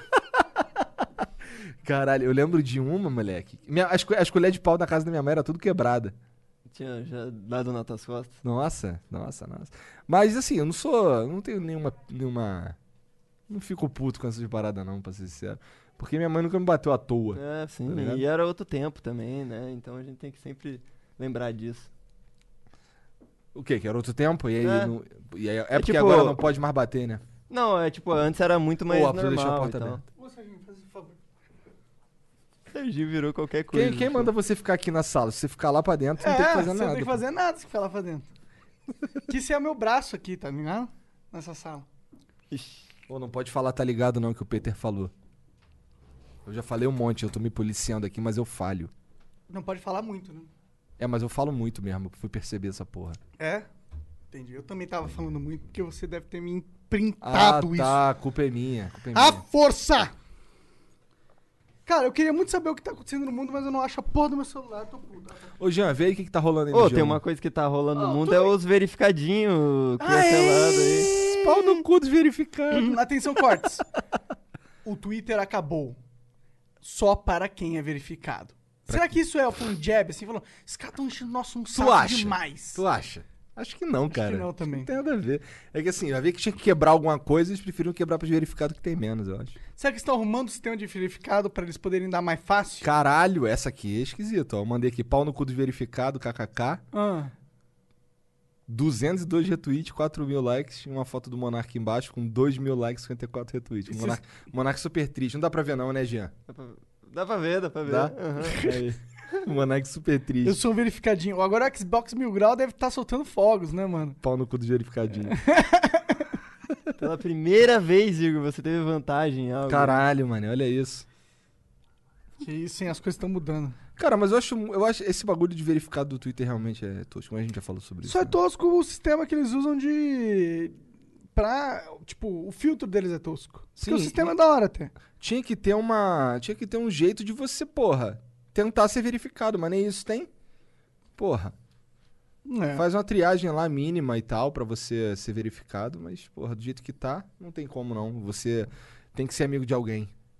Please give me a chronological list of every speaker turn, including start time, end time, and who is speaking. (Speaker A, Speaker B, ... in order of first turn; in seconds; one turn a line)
Speaker A: 0.6-6.2
Speaker B: 6.7-8.4
Speaker A: 8.4-12.8
Speaker A: 13.5-18.2
Speaker B: 17.3-21.9
Speaker A: 23.5-27.2
Speaker B: 24.6-24.9
Speaker B: 25.7-26.4
Speaker B: 27.5-30.0
Speaker A: 28.9-30.0
Speaker C: 30.1-31.2
Speaker B: 32.7-34.3
Speaker A: 33.7-37.2
Speaker C: 36.2-38.3
Speaker C: 39.3-41.9
Speaker B: 42.5-42.9
Speaker A: 43.1-45.1
Speaker A: 46.4-48.9
Speaker C: 49.5-50.5
Speaker A: 51.0-53.2
Speaker C: 53.4-53.7
Speaker C: 54.3-58.0
Speaker A: 57.2-59.4
Speaker C: 59.1-60.1
Speaker C: 61.9-65.5
Speaker A: 65.6-67.2
Speaker B: 66.7-71.1
Speaker C: 68.0-68.5
Speaker C: 70.0-71.8
Speaker A: 71.0-73.0
Speaker C: 72.7-73.8
Speaker C: 74.8-76.0
Speaker C: 76.8-82.8
Speaker A: 78.9-79.2
Speaker A: 81.7-89.6
Speaker C: 84.1-84.9
Speaker C: 89.8-92.9
Speaker A: 92.8-96.8
Speaker C: 96.9-97.3
Speaker A: 98.7-106.3
Speaker C: 103.9-104.4
Speaker B: 106.5-108.7
Speaker A: 107.8-110.6
Speaker C: 108.4-108.8
Speaker C: 110.4-114.2
Speaker A: 114.2-115.4
Speaker C: 115.2-116.3
Speaker B: 117.0-120.0
Speaker A: 119.7-121.0
Speaker C: 122.4-123.8
Speaker A: 124.0-128.3
Speaker C: 128.0-130.8
Speaker C: 131.3-134.9
Speaker A: 133.8-134.3
Speaker A: 135.1-140.3
Speaker A: 141.2-141.5
Speaker C: 142.4-142.8
Speaker A: 142.7-150.1